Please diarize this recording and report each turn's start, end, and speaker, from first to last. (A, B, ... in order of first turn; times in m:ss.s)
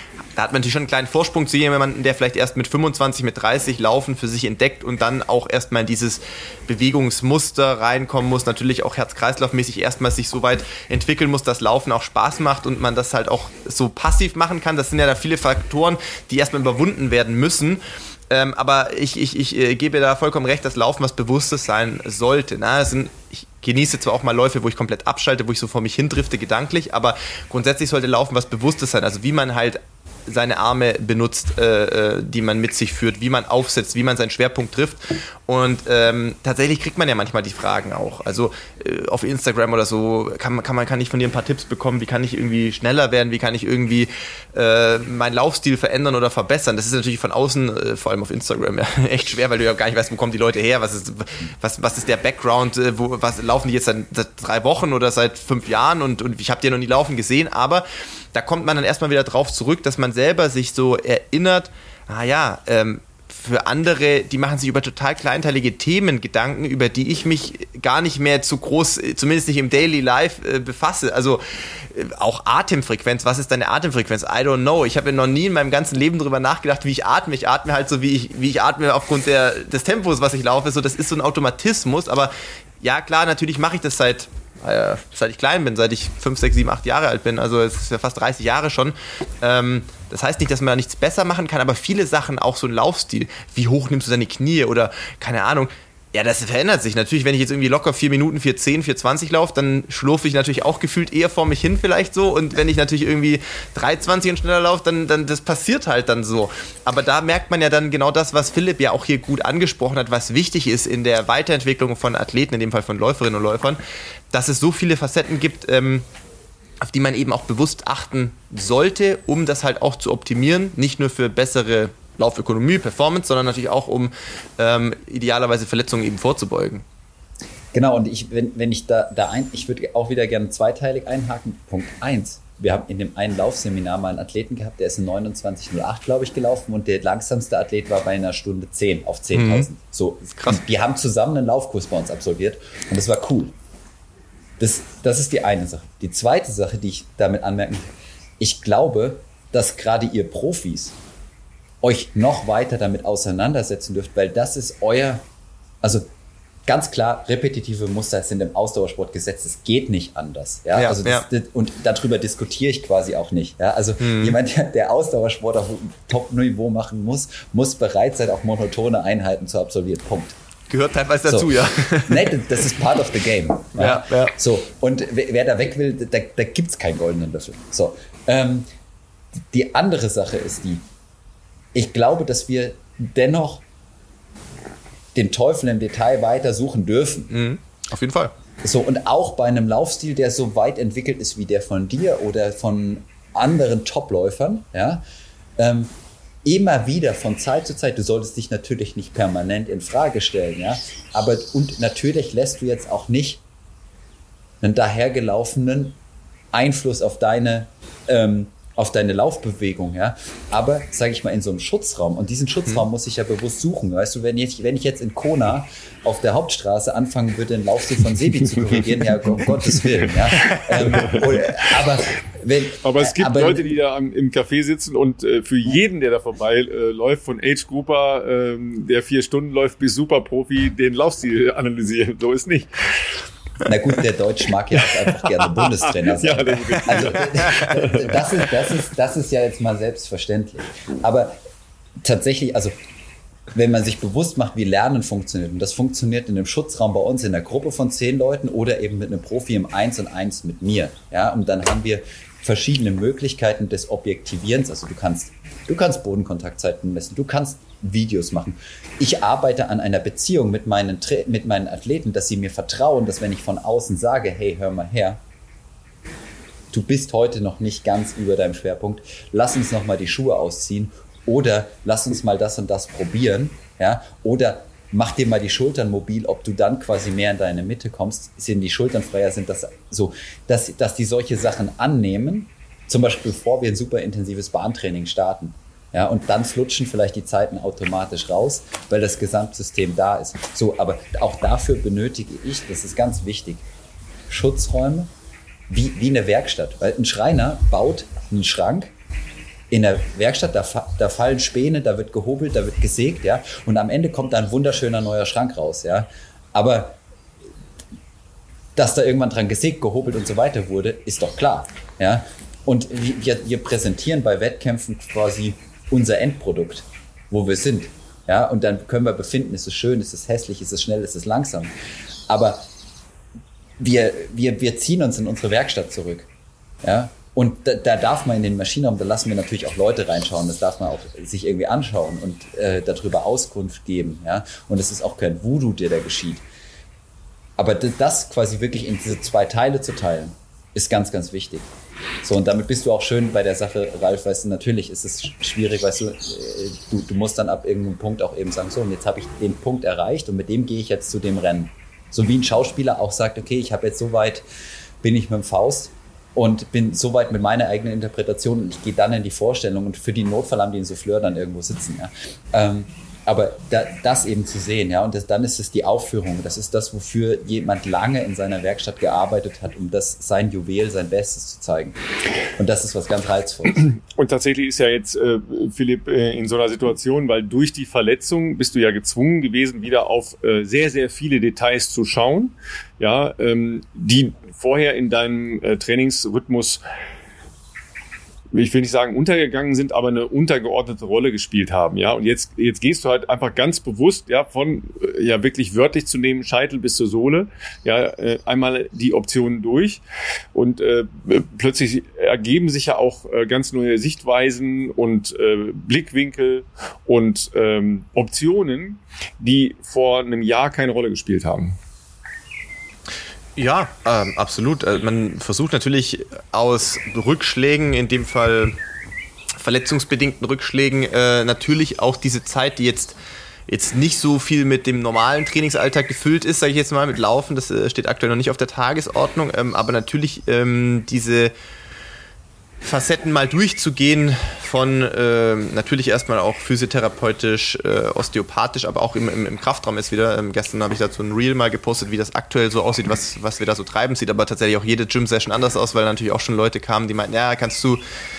0:00.4-1:53.8 A
1:54.3-1:56.1 A
1:56.8-2:06.8 A
2:07.7-2:23.5 B
2:19.3-2:19.7 A
2:24.6-2:31.0 B
2:31.8-2:35.2 B
2:36.7-2:50.4 B
2:40.8-2:41.3 A
2:44.0-2:44.4 A
2:50.7-2:52.4 A
2:51.2-2:58.7 B
2:53.8-2:54.4 A
2:59.5-3:00.8 B
3:01.7-3:03.6 B
3:05.1-3:07.3 B
3:07.3-3:08.3 A
3:08.6-3:15.0 B
3:15.6-3:15.9 B
3:16.4-3:23.4 B
3:24.6-3:26.0 B
3:26.5-3:43.7 B
3:38.6-3:41.6 C
3:40.4-3:41.1 A
3:42.8-3:53.2 C
3:53.6-4:01.4 B
3:54.8-3:58.2 C
3:57.0-3:57.8 A
4:02.0-4:02.8 B
4:03.5-4:25.2 B
4:26.7-4:53.6 B
4:54.3-4:55.1 B
4:55.7-4:58.9 B
4:59.7-5:07.0 B
5:08.8-5:21.7 B
5:22.3-5:22.7 B
5:23.8-5:26.3 B
5:26.8-5:36.4 B
5:37.6-5:41.7 B
5:42.2-5:54.4 B
5:55.0-6:12.0 B
6:12.6-6:13.9 B
6:13.8-6:26.8 C
6:28.5-6:40.0 C
6:40.5-6:51.8 C
6:53.6-6:58.8 A
6:59.6-7:03.2 A
7:03.7-7:11.5 A
7:12.8-7:28.0 A